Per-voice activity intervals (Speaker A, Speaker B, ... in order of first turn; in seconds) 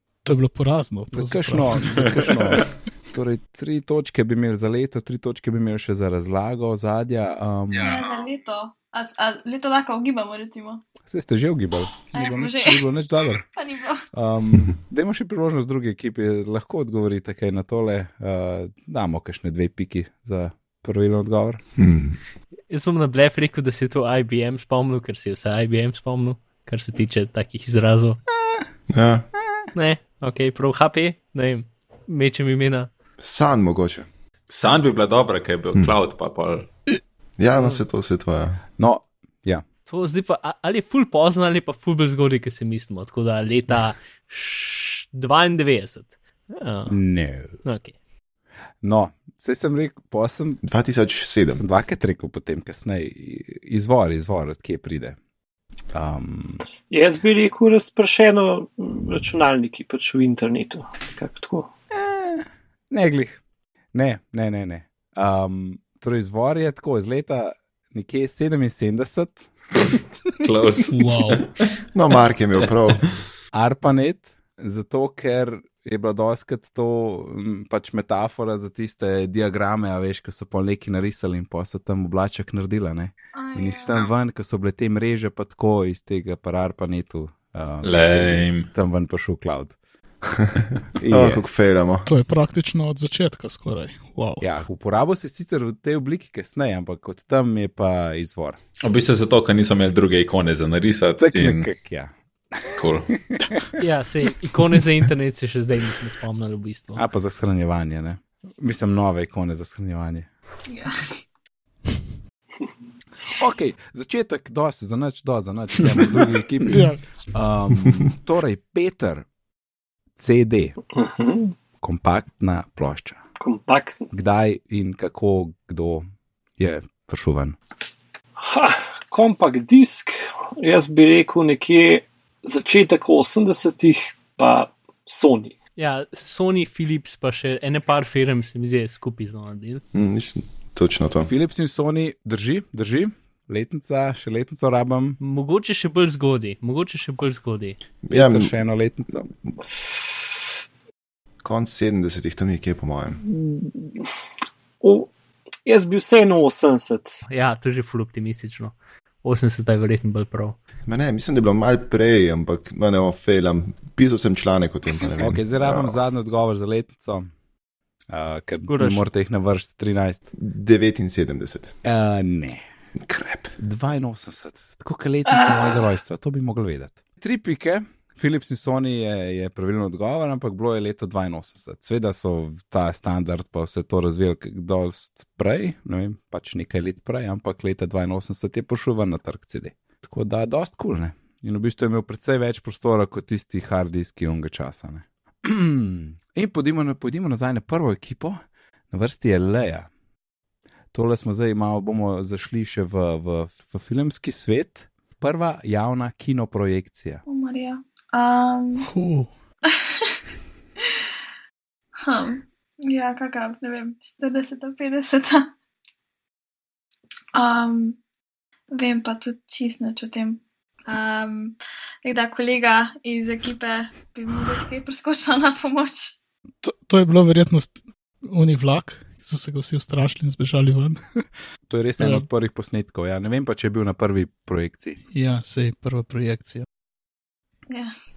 Speaker A: 0.2-2.4, 70.9-71.5, 92.0-94.5, 116.7-117.2, 208.8-209.3, 226.6-231.2, 232.0-232.3, 235.1-236.7
Speaker B: 1.1-8.0, 11.1-13.4, 14.1-21.6, 38.8-39.6, 46.9-47.5, 48.8-50.6, 51.5-55.2, 55.9-56.6, 61.9-63.4, 63.9-69.5, 73.5-89.7, 91.0-91.4, 94.4-98.6, 101.2-103.7, 107.0-110.3, 113.3-119.2, 120.2-120.8, 121.8-123.2, 124.1-126.0, 126.6-127.6, 141.2-145.2, 148.1-149.3, 165.2-167.3, 168.1-170.3, 171.8-172.7, 173.6-198.4, 198.9-199.9, 200.9-207.2, 231.7-235.0
Speaker C: 7.8-10.8, 12.1-12.9, 13.5-14.1, 83.3-84.1, 110.7-111.2, 207.3-208.9, 209.7-210.2, 212.0-215.5, 217.3-218.0, 218.7-226.2, 237.7-237.9
Speaker D: 21.8-22.2, 28.9-29.3, 33.2-34.1, 37.4-38.6, 50.6-51.6, 71.9-73.1, 90.3-92.1, 139.9-141.3, 148.0-148.6, 151.4-153.2, 160.8-166.0, 170.3-171.8, 173.0-173.5
Speaker E: 22.7-28.2, 29.7-32.9, 39.9-47.0, 47.6-47.9, 103.8-107.0, 135.8-139.8, 145.2-147.8, 157.3-160.6, 168.7-169.0
Speaker F: 34.5-36.7, 70.4-71.5, 87.8-88.7, 98.8-101.7, 102.8-103.1
Speaker G: 56.8-61.7, 120.9-121.5, 123.4-124.1, 128.4-135.5, 153.2-154.1, 154.8-155.1, 155.7-157.2, 175.3-175.8